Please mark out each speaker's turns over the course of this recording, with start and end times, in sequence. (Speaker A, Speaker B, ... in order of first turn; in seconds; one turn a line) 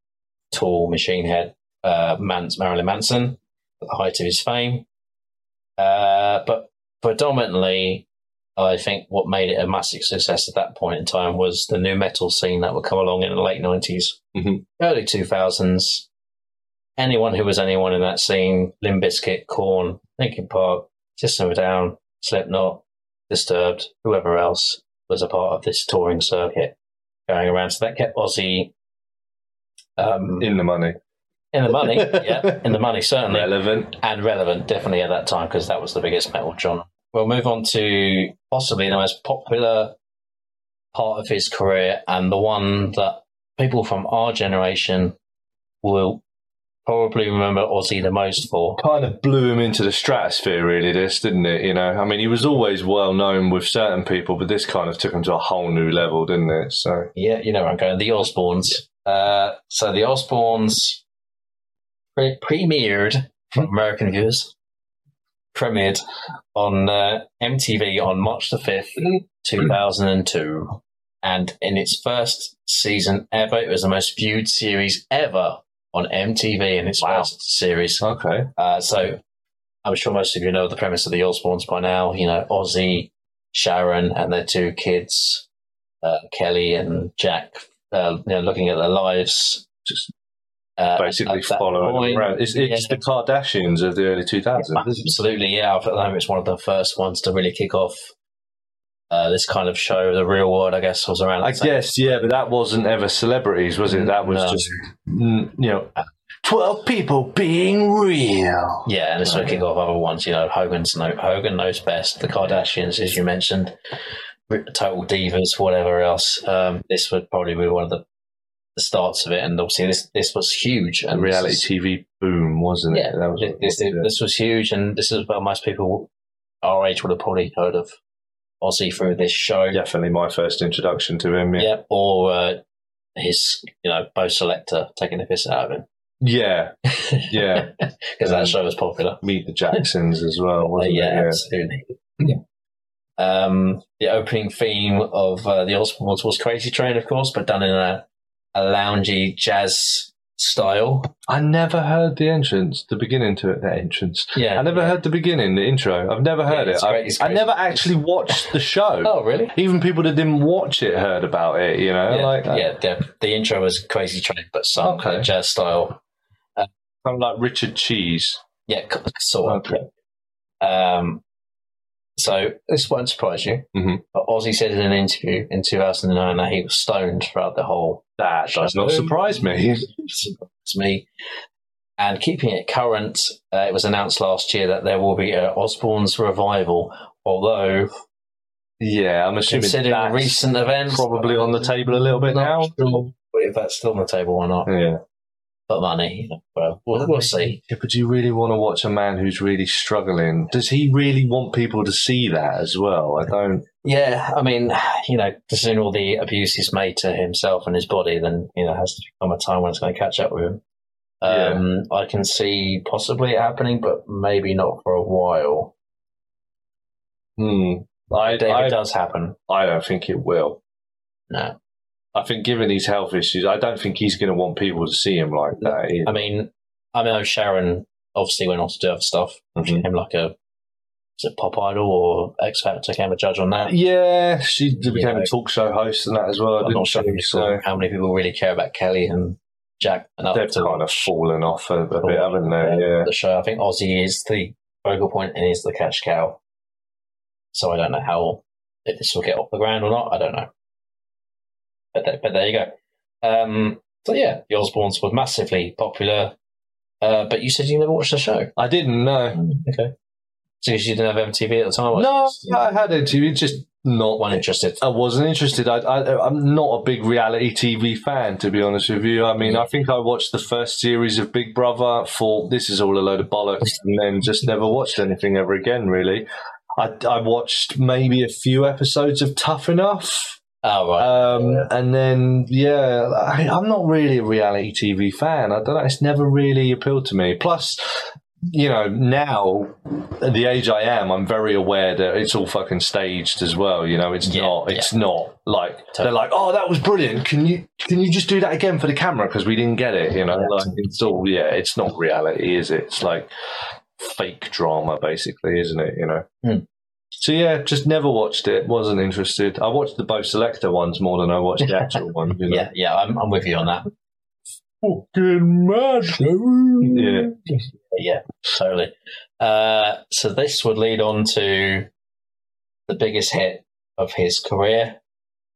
Speaker A: 0.5-4.8
Speaker A: 5.8-14.2
Speaker B: 14.3-14.6
Speaker A: 14.8-16.1
Speaker A: 17.0-26.8
Speaker A: 27.3-28.7
Speaker A: 30.0-30.5
Speaker B: 30.4-31.0
Speaker A: 31.5-40.0
Speaker B: 31.9-32.6
Speaker B: 33.3-33.9
Speaker A: 40.9-45.1
Speaker A: 45.8-46.2
Speaker A: 46.9-48.8
Speaker B: 48.8-57.1
Speaker A: 57.1-61.0
Speaker A: 62.1-64.5
Speaker A: 65.5-66.0
Speaker A: 66.5-79.2
Speaker B: 77.0-77.3
Speaker B: 78.0-78.5
Speaker A: 79.8-85.5
Speaker A: 86.0-89.7
Speaker A: 90.8-93.0
Speaker B: 91.0-95.1
Speaker A: 94.6-98.1
Speaker A: 99.1-102.2
Speaker B: 101.4-105.9
Speaker A: 103.9-104.8
Speaker B: 106.4-109.6
Speaker A: 108.8-113.8
Speaker A: 114.5-118.0
Speaker A: 118.8-121.7
Speaker B: 121.1-124.1
Speaker A: 122.9-126.1
Speaker A: 126.6-127.9
Speaker A: 128.6-129.8
Speaker B: 129.7-131.7
Speaker A: 131.6-132.6
Speaker A: 133.2-135.9
Speaker B: 136.2-136.8
Speaker A: 136.9-139.9
Speaker B: 137.3-137.7
Speaker B: 138.2-138.6
Speaker B: 139.2-141.4
Speaker A: 140.7-142.4
Speaker A: 143.2-151.1
Speaker B: 151.3-162.7
Speaker A: 154.3-155.0
Speaker A: 156.5-158.4
Speaker A: 159.0-159.5
Speaker A: 162.1-166.0
Speaker B: 164.8-165.3
Speaker B: 167.0-168.4
Speaker A: 168.7-169.9
Speaker B: 169.5-169.8
Speaker A: 170.6-171.2
Speaker A: 172.2-181.1
Speaker B: 173.7-174.0
Speaker B: 178.2-179.9
Speaker A: 182.0-187.9
Speaker B: 188.8-193.1
Speaker A: 189.5-194.7
Speaker B: 194.7-195.0
Speaker A: 195.7-197.6
Speaker B: 196.9-203.7
Speaker A: 203.8-210.6
Speaker A: 211.2-215.7
Speaker B: 211.2-211.6
Speaker B: 217.4-218.8
Speaker A: 218.2-219.4
Speaker B: 219.5-220.6
Speaker A: 221.3-221.6
Speaker B: 222.2-226.2
Speaker A: 225.6-230.3
Speaker B: 229.6-229.8
Speaker A: 231.2-233.8
Speaker B: 233.7-237.6
Speaker A: 234.8-235.3
Speaker A: 236.6-241.1
Speaker B: 240.3-243.1
Speaker A: 242.0-246.4
Speaker A: 247.5-250.5
Speaker A: 251.9-256.4
Speaker A: 257.0-258.5
Speaker B: 258.6-259.4
Speaker A: 259.3-259.9
Speaker A: 260.6-262.7
Speaker B: 261.9-276.3
Speaker A: 264.2-264.8
Speaker A: 269.4-269.7
Speaker B: 276.8-280.4
Speaker A: 280.6-281.7
Speaker B: 281.0-303.3
Speaker A: 294.2-294.9
Speaker A: 300.3-300.9
Speaker B: 304.0-306.3
Speaker B: 307.2-312.7
Speaker A: 311.7-311.9
Speaker A: 312.5-313.9
Speaker B: 314.8-317.4
Speaker A: 317.9-321.9
Speaker A: 322.9-325.0